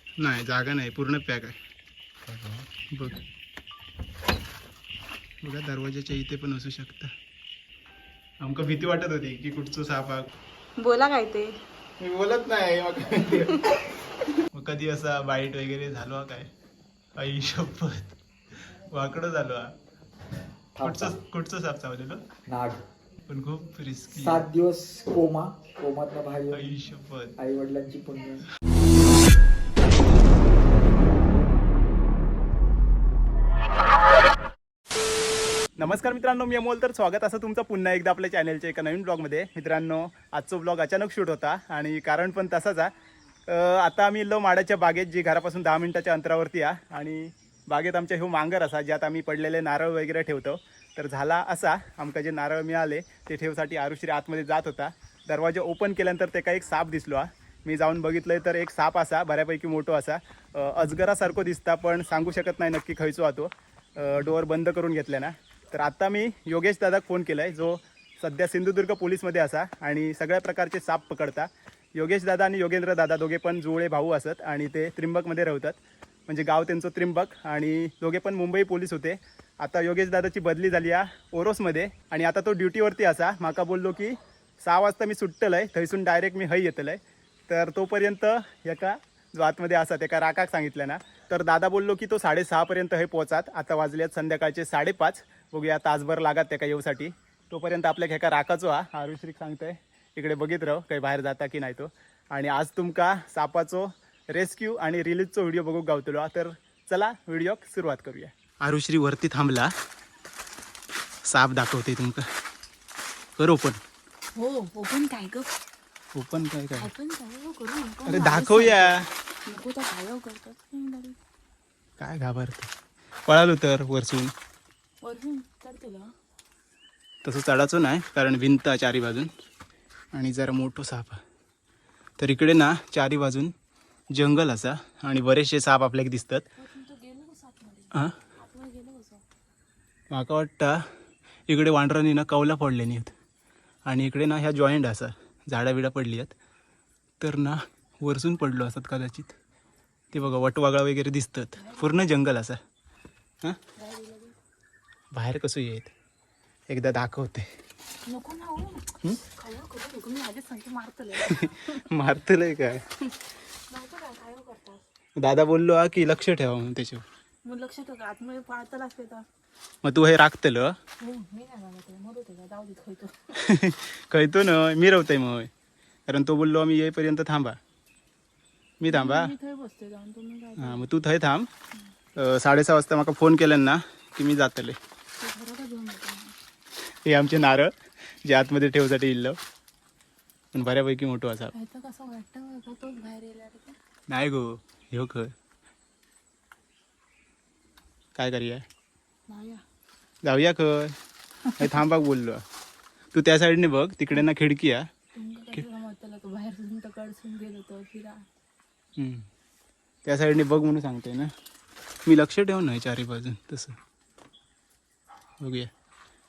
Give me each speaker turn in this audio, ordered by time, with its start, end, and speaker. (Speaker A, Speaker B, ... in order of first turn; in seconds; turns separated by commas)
Speaker A: 0.2-1.6, Speaker B: 2.3-2.6, Speaker A: 2.9-3.2, Speaker A: 5.4-7.1, Speaker A: 8.4-10.3, Speaker C: 10.8-11.5, Speaker A: 12.0-13.6, Speaker A: 14.5-16.5, Speaker A: 17.2-18.2, Speaker A: 18.9-19.7, Speaker B: 20.8-21.2, Speaker A: 20.8-22.2, Speaker B: 22.5-22.8, Speaker A: 23.3-24.4, Speaker B: 24.1-26.7, Speaker A: 26.5-27.4, Speaker B: 27.4-28.4, Speaker A: 35.8-42.9, Speaker A: 43.5-109.7, Speaker A: 111.2-112.3, Speaker A: 113.4-113.8, Speaker C: 114.3-115.6, Speaker A: 116.1-116.9, Speaker C: 116.8-121.2, Speaker A: 118.1-119.1, Speaker A: 122.0-122.7, Speaker A: 123.3-124.3, Speaker C: 125.0-126.1, Speaker A: 127.2-129.3, Speaker A: 130.1-131.2, Speaker A: 132.2-133.5, Speaker A: 134.1-136.4, Speaker C: 136.6-139.2, Speaker A: 140.1-140.9, Speaker A: 141.5-143.1, Speaker A: 143.8-146.3, Speaker A: 147.2-149.4, Speaker A: 150.1-152.6, Speaker C: 151.6-152.0, Speaker C: 153.8-154.4, Speaker A: 155.1-155.9, Speaker A: 156.7-157.5, Speaker C: 158.1-161.9, Speaker A: 161.2-162.8, Speaker C: 163.0-164.8, Speaker A: 165.2-167.0, Speaker C: 167.4-169.3, Speaker A: 169.8-170.8, Speaker C: 171.0-173.4, Speaker A: 173.4-175.5, Speaker A: 176.1-177.6, Speaker A: 178.8-179.3, Speaker C: 178.8-180.9, Speaker A: 180.6-181.5, Speaker A: 182.2-184.8, Speaker C: 185.2-186.4, Speaker A: 187.1-187.7, Speaker A: 188.2-189.4, Speaker A: 190.5-191.5, Speaker C: 191.5-193.8, Speaker A: 194.1-195.3, Speaker A: 198.2-198.7, Speaker C: 199.3-199.6, Speaker A: 200.2-201.0, Speaker C: 201.4-201.8, Speaker A: 201.6-202.4, Speaker A: 203.1-204.9, Speaker C: 205.1-208.3, Speaker A: 209.0-209.3, Speaker A: 210.1-211.3, Speaker A: 212.1-213.8, Speaker A: 215.4-215.7